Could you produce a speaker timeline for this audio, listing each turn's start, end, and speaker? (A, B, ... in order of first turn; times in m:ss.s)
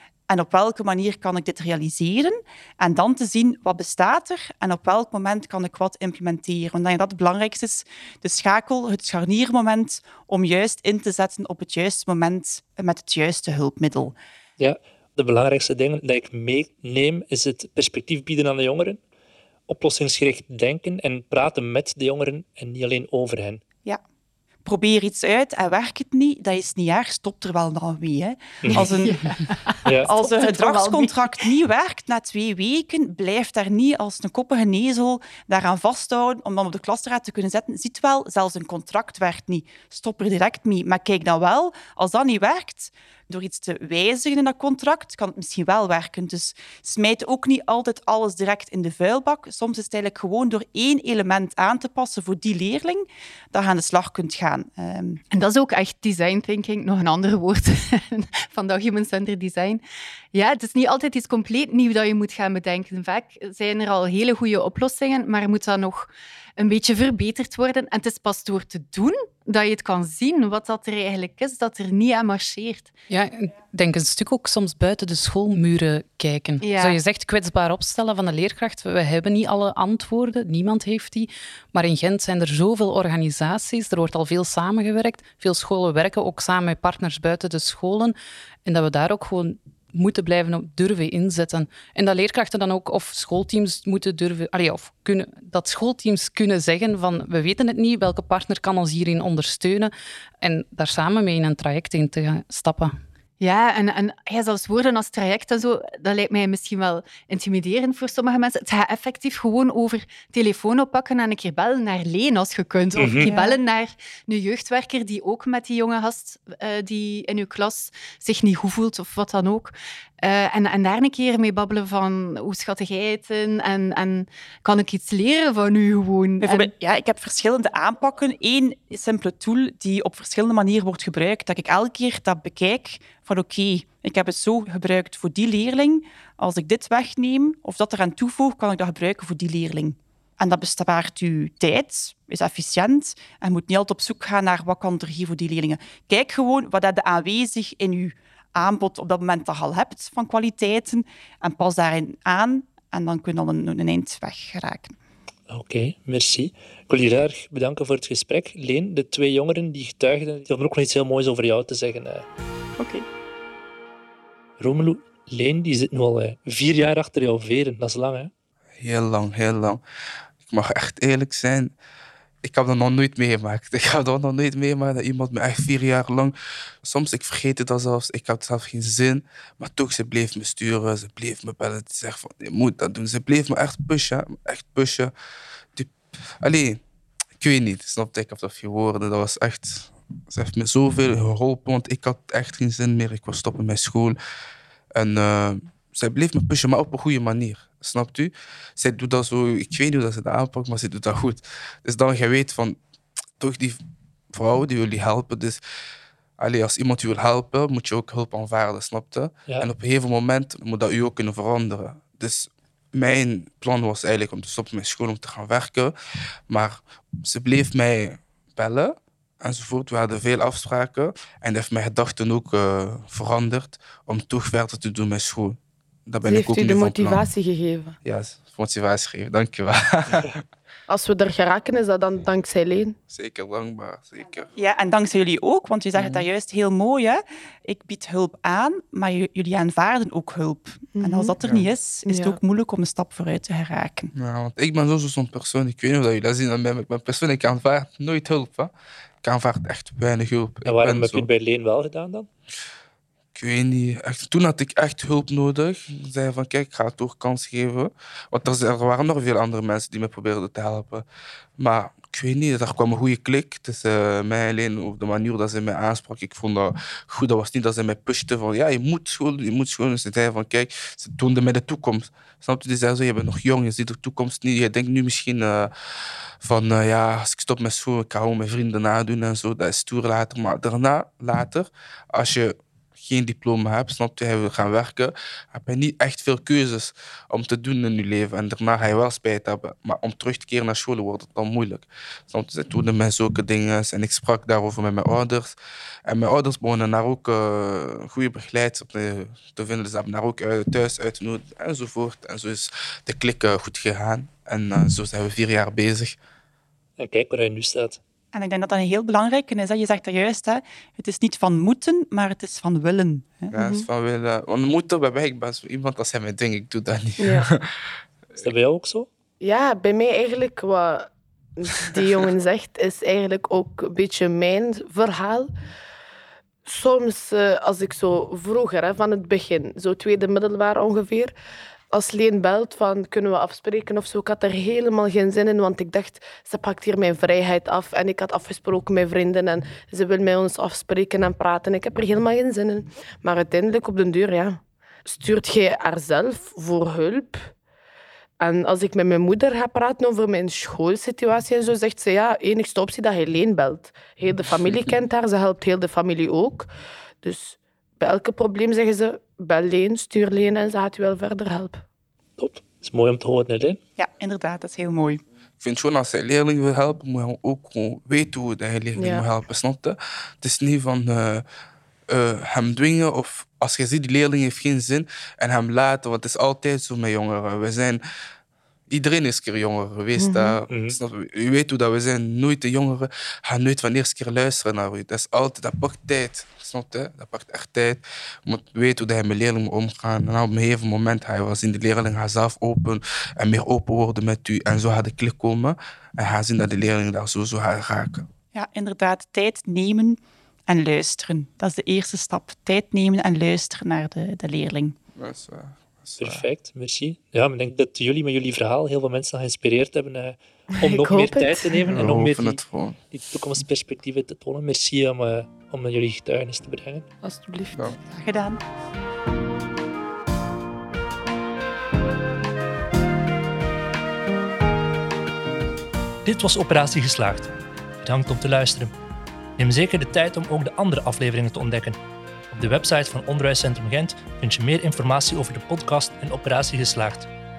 0:00.3-0:14.2 A
0:14.6-0:19.0 B
0:19.7-0:23.6 B
0:24.6-0:29.3 A
0:28.6-0:28.9 B
0:28.7-0:31.5 C
0:30.0-0:55.2 A
0:55.3-0:59.8 C
1:00.3-1:12.9 C
1:13.1-1:28.1 D
1:16.6-1:17.0 C
1:28.6-1:42.9 D
1:43.4-2:06.7 C
1:53.0-1:53.3 B
1:53.2-1:53.6 A
2:06.4-2:35.0 A
2:35.5-2:42.2 B
2:42.8-2:43.0 A
2:44.6-2:48.3 B
2:48.8-2:49.8 E
2:50.4-2:51.7 E
2:52.4-3:05.1 E
3:05.7-3:06.8 E
3:07.4-3:14.2 E
3:14.9-3:22.8 E
3:23.4-3:23.8 E
3:24.3-3:25.6 E
3:26.4-3:35.9 E
3:36.5-3:47.2 E
3:46.2-3:48.0 F
3:48.0-3:50.4 E
3:50.9-3:52.9 F
3:53.1-3:54.5 E
3:54.6-4:04.1 A
4:00.9-4:01.3 F
4:02.0-4:02.4 F
4:04.1-4:08.7 E
4:09.2-4:11.3 E
4:10.6-4:12.3 B
4:13.3-4:21.0 E
4:21.6-4:35.7 E
4:36.4-5:06.2 E
5:07.0-5:08.0 B
5:08.3-5:13.5 A
5:13.5-5:17.7 E
5:13.6-5:13.8 F
5:17.2-5:17.5 F
5:18.4-5:19.1 B
5:19.4-5:25.5 F
5:26.6-5:31.3 F
5:31.9-5:47.5 F
5:48.4-5:56.7 F
5:57.2-6:01.8 F
6:02.4-6:03.8 B
6:04.0-6:05.2 A
6:05.6-6:11.4 E
6:09.0-6:09.2 F
6:12.1-6:18.0 E
6:18.9-6:38.3 E
6:20.2-6:20.6 F
6:20.7-6:21.0 B
6:38.5-6:45.0 A
6:45.1-6:46.5 E
6:46.2-6:52.6 B
6:50.8-6:51.9 F
6:51.9-6:53.0 E
6:53.1-6:57.0 B
6:57.2-6:57.9 F
6:58.0-6:58.6 A
7:06.2-7:08.9 B
7:09.6-7:12.0 B
7:12.5-7:17.3 B